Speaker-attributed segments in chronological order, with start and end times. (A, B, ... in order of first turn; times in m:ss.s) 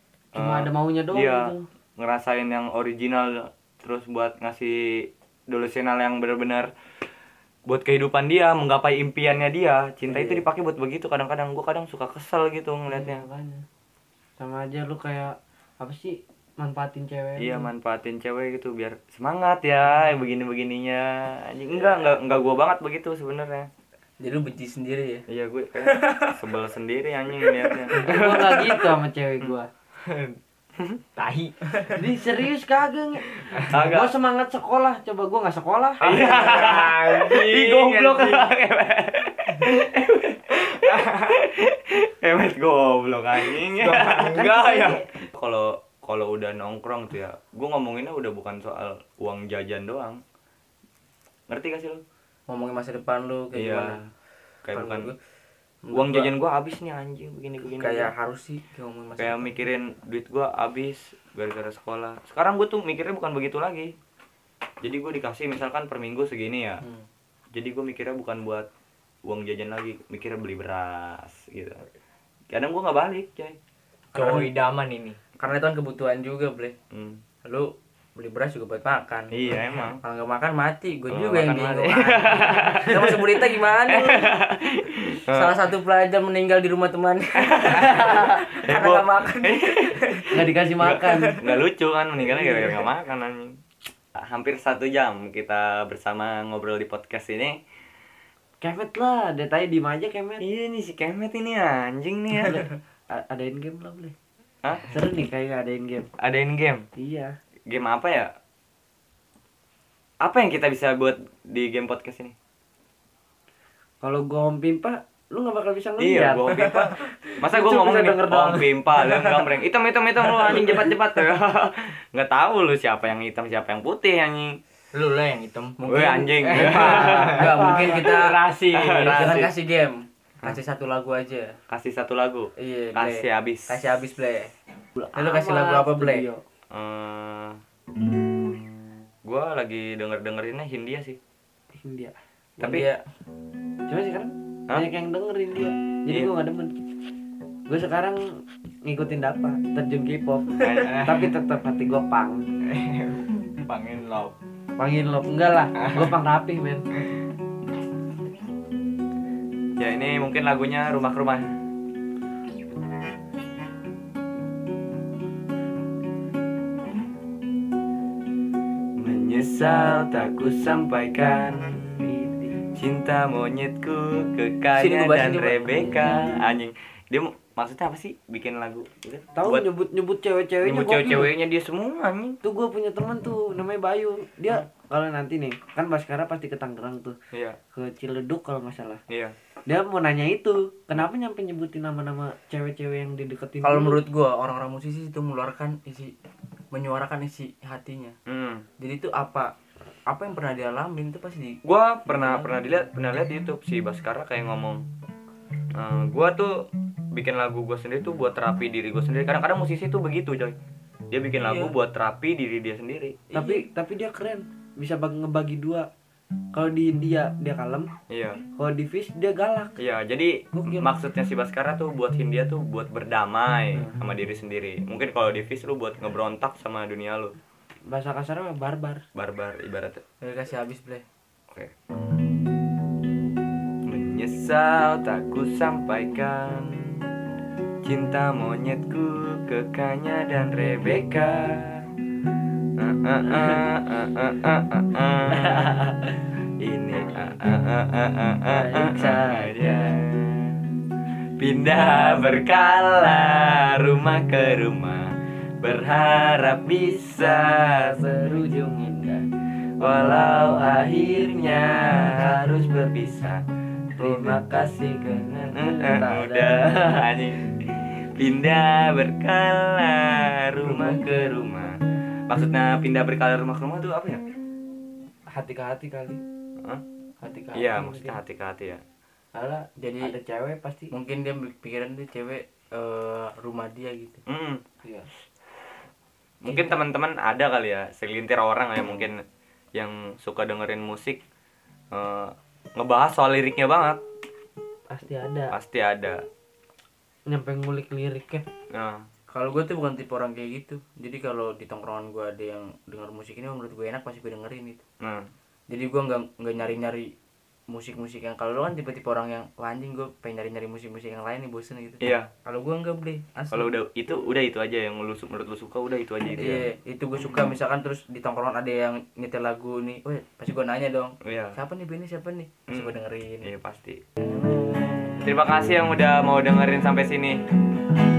0:00.3-0:01.7 A
0:00.3-0:06.7 B
0:07.7-0:13.2 B
0:10.1-0:10.4 C
0:12.9-0:13.6 A
0:14.4-0:17.7 A
0:17.4-0:23.7 B
0:24.2-0:25.2 C
0:25.3-0:29.5 B
0:25.8-0:26.4 C
0:27.4-0:27.9 C
0:27.9-0:29.7 A
0:30.0-0:30.4 D
0:31.2-0:31.5 D
0:31.9-0:36.0 A
0:33.7-0:34.1 B
0:36.0-0:38.5 D
0:36.0-0:50.2 B
0:40.9-0:41.3 D
0:43.8-0:44.4 D
0:44.2-0:45.1 A
0:51.5-0:52.0 B
0:52.5-0:54.0 C
0:53.5-0:54.1 B
0:54.6-0:55.1 B
0:54.7-0:55.2 C
0:55.8-0:56.3 C
0:55.9-0:58.1 B
0:57.7-0:59.6 C
0:59.2-1:03.9 B
1:04.8-1:06.8 B
1:06.8-1:07.1 C
1:07.5-1:08.7 B
1:09.2-1:11.8 B
1:12.5-1:13.6 B
1:14.1-1:14.5 C
1:14.1-1:15.2 D
1:15.4-1:16.8 C
1:16.9-1:17.2 B
1:17.4-1:19.3 C
1:19.3-1:20.0 B
1:20.0-1:24.3 C
1:21.1-1:23.1 B
1:22.6-1:23.3 A
1:23.9-1:25.5 B
1:25.3-1:30.5 C
1:27.4-1:30.3 B
1:27.7-1:28.3 A
1:30.3-1:31.4 A
1:30.8-1:33.6 B
1:31.0-1:31.6 C
1:34.1-1:37.6 B
1:38.6-1:40.4 A
1:40.4-1:42.6 B
1:42.4-1:44.1 A
1:44.9-1:46.1 A
1:46.2-1:46.8 B
1:47.0-1:47.3 A
1:47.7-1:48.3 B
1:50.2-1:52.3 B
1:54.0-1:58.7 A
1:56.0-2:04.6 B
1:59.0-1:59.4 C
2:04.9-2:05.8 D
2:05.8-2:08.4 C
2:05.8-2:07.5 B
2:06.3-2:09.3 D
2:06.5-2:08.1 A
2:08.7-2:09.5 B
2:09.0-2:11.6 C
2:11.7-2:14.0 B
2:12.6-2:14.5 C
2:15.0-2:16.4 A
2:15.2-2:16.3 C
2:16.7-2:17.6 B
2:19.2-2:21.2 B
2:21.7-2:22.2 A
2:22.6-2:23.0 C
2:22.6-2:22.8 B
2:23.9-2:26.8 A
2:26.1-2:26.3 B
2:27.7-2:32.4 A
2:30.6-2:31.2 B
2:30.8-2:31.1 D
2:32.7-2:33.2 D
2:33.6-2:34.3 B
2:34.8-2:36.8 A
2:39.8-2:41.6 B
2:49.0-2:52.1 B
2:52.0-2:52.6 A
2:52.7-2:59.7 B
2:54.8-2:55.9 C
2:55.8-2:56.4 A
2:59.3-3:01.3 A
3:00.6-3:02.4 B
3:02.4-3:07.2 A
3:07.3-3:07.6 B
3:07.7-3:09.0 A
3:09.1-3:09.4 B
3:09.7-3:14.0 A
3:13.6-3:16.1 C
3:16.7-3:18.2 C
3:18.3-3:18.7 B
3:18.8-3:19.5 C
3:20.1-3:21.6 C
3:21.6-3:24.8 B
3:25.7-3:30.6 B
3:31.1-3:33.2 B
3:31.4-3:31.7 C
3:33.3-3:33.6 C
3:33.3-3:35.9 A
3:36.5-3:37.9 A
3:38.1-3:38.4 B
3:38.6-3:39.8 A
3:39.8-3:47.4 B
3:40.5-3:40.9 A
3:47.9-3:49.0 A
3:49.1-3:50.0 B
3:50.2-3:51.0 C
3:53.8-3:56.9 B
3:57.8-4:01.8 B
4:00.6-4:01.1 A
4:02.8-4:05.8 B
4:03.2-4:03.7 A
4:05.3-4:06.3 A
4:06.6-4:10.7 B
4:08.5-4:09.9 A
4:11.4-4:18.0 B
4:17.7-4:19.3 A
4:19.8-4:22.4 B
4:19.8-4:23.2 A
4:22.9-4:23.4 B
4:24.0-4:27.1 A
4:24.0-4:24.4 B
4:25.5-4:34.2 B
4:30.6-4:31.0 A
4:35.3-4:36.2 A
4:37.2-4:38.2 A
4:37.5-4:38.8 B
4:39.3-4:40.9 A
4:39.8-4:40.1 C
4:40.9-4:44.2 C
4:44.3-4:44.6 B
4:46.4-4:49.2 B
4:46.5-4:46.8 A
4:49.7-4:51.2 B
4:51.9-4:54.0 B
4:54.9-4:55.5 A
4:55.5-4:56.2 B
4:57.3-4:58.4 A
4:58.7-4:59.1 B
4:59.3-5:04.8 C
5:05.0-5:05.3 B
5:05.7-5:07.1 C
5:07.7-5:13.7 C
5:12.0-5:12.3 B
5:13.5-5:16.7 B
5:16.3-5:23.5 C
5:21.2-5:21.6 B
5:22.7-5:24.0 B
5:24.2-5:25.2 C
5:25.2-5:27.4 B